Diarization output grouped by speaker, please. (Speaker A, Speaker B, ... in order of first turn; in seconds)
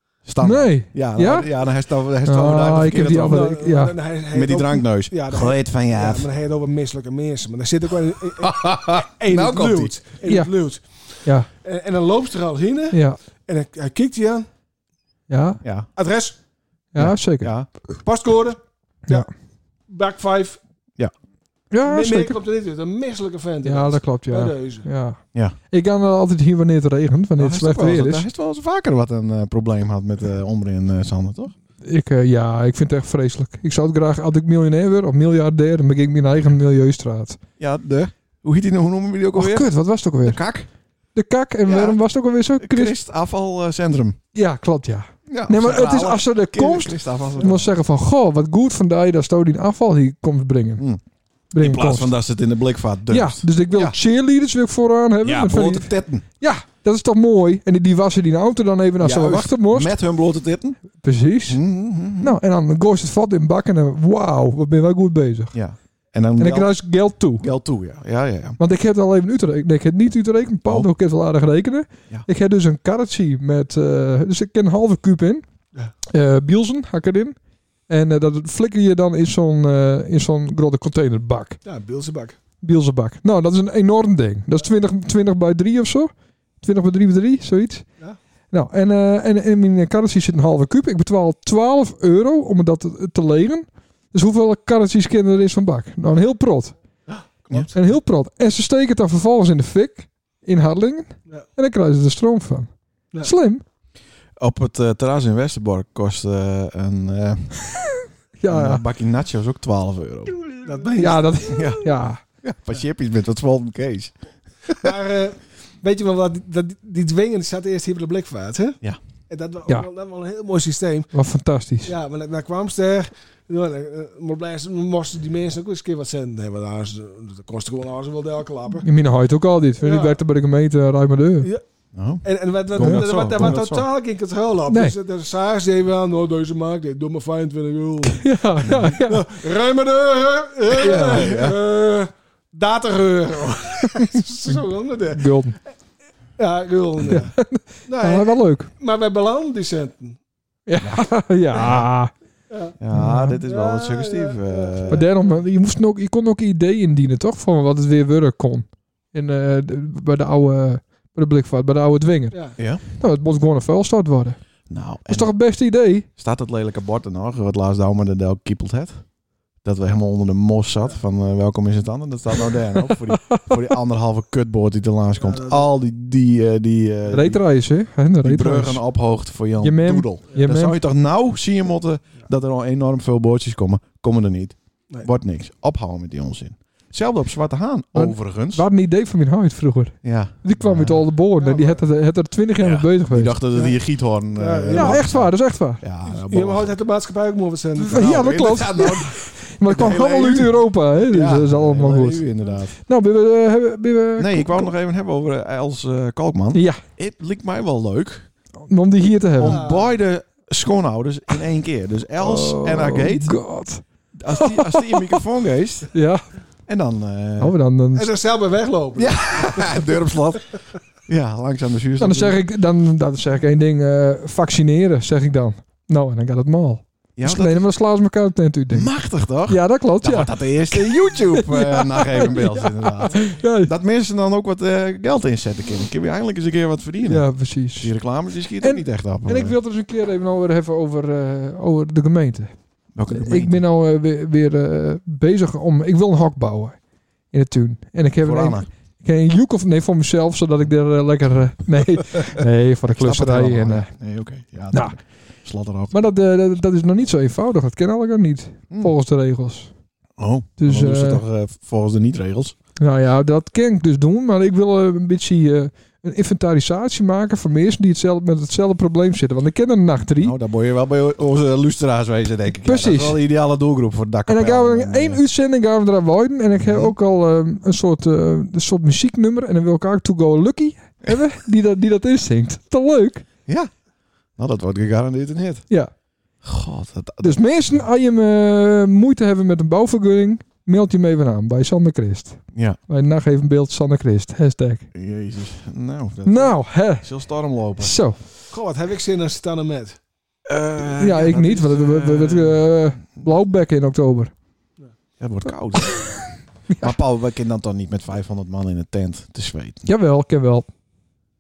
Speaker A: 0.2-3.6, 4.3-6.3, 8.4-10.0, 15.6-15.9, 17.0-17.7, 27.4-31.5, 37.6-40.7, 41.7-42.0, 42.6-44.2, 45.3-47.8, 51.6-54.0, 55.2-56.2, 59.0-60.8, 61.5-62.4, 65.5-66.8, 67.4-68.6, 97.5-97.8, 104.4-107.6, 108.5-110.4, 111.5-114.1, 131.9-133.8, 140.8-141.6, 150.8-151.9, 152.8-155.0, 162.6-162.8, 164.7-165.3, 166.2-169.0, 169.6-177.4, 178.2-188.7, 190.0-191.0, 192.6-196.8, 197.9-202.8, 204.2-208.3, 209.4-213.4, 214.2-215.9, 216.7-217.6, 219.0-220.5, 221.1-222.4, 227.2-227.7, 228.7-239.6, 243.0-243.6, 248.2-248.7, 252.0-256.0, 260.2-262.6, 270.2-275.2, 276.5-276.9, 283.5-283.7, 284.4-285.7, 286.4-287.4, 294.9-298.0, 300.5-302.6, 305.2-306.2, 306.8-309.8
Speaker B: 0.4-1.5, 2.2-4.0, 10.2-10.5, 12.9-13.2, 15.3-15.6, 16.9-17.6, 21.7-22.4, 23.6-28.3, 31.8-37.4, 39.3-40.4, 41.1-43.0, 44.4-50.8, 51.5-52.2, 53.1-60.0, 60.9-61.6, 62.2-65.5, 66.4-67.5, 68.6-75.4, 76.1-77.4, 77.9-81.6, 82.6-87.9, 88.5-96.8, 97.7-103.6, 107.7-108.8, 111.0-112.2, 121.1-121.9, 128.8-131.5, 132.8-133.7, 138.1-139.2, 140.8-141.3, 145.1-145.6, 147.1-148.7, 150.7-152.1, 152.9-153.4, 154.9-164.4, 165.1-166.1, 172.9-173.5, 177.1-178.8, 179.6-180.8, 187.9-193.4, 194.7-195.8, 197.8-204.7, 206.5-206.8, 208.6-209.6, 212.2-215.2, 215.9-216.3, 217.4-218.1, 222.0-233.7, 237.0-237.9, 238.6-242.5, 243.1-246.8, 247.3-253.9, 254.7-255.0, 255.9-259.7, 260.6-261.2, 262.8-270.4, 272.6-273.2, 274.3-283.3, 287.2-294.9, 296.2-297.2, 297.8-298.2, 301.0-304.3, 305.8-306.9, 309.8-310.7
Speaker C: 3.3-14.5, 16.0-16.4, 18.0-19.3, 19.9-20.6, 21.8-24.9, 81.7-82.4, 97.1-97.6, 110.6-111.4, 114.8-118.8, 119.3-121.1, 121.8-128.9, 129.8-130.2, 132.2-145.3, 146.4-147.3, 147.9-150.2, 152.5-152.8, 153.4-155.4, 175.2-175.7, 191.4-191.8, 194.3-195.1, 196.1-198.1, 209.4-210.0, 217.9-219.9, 298.5-300.0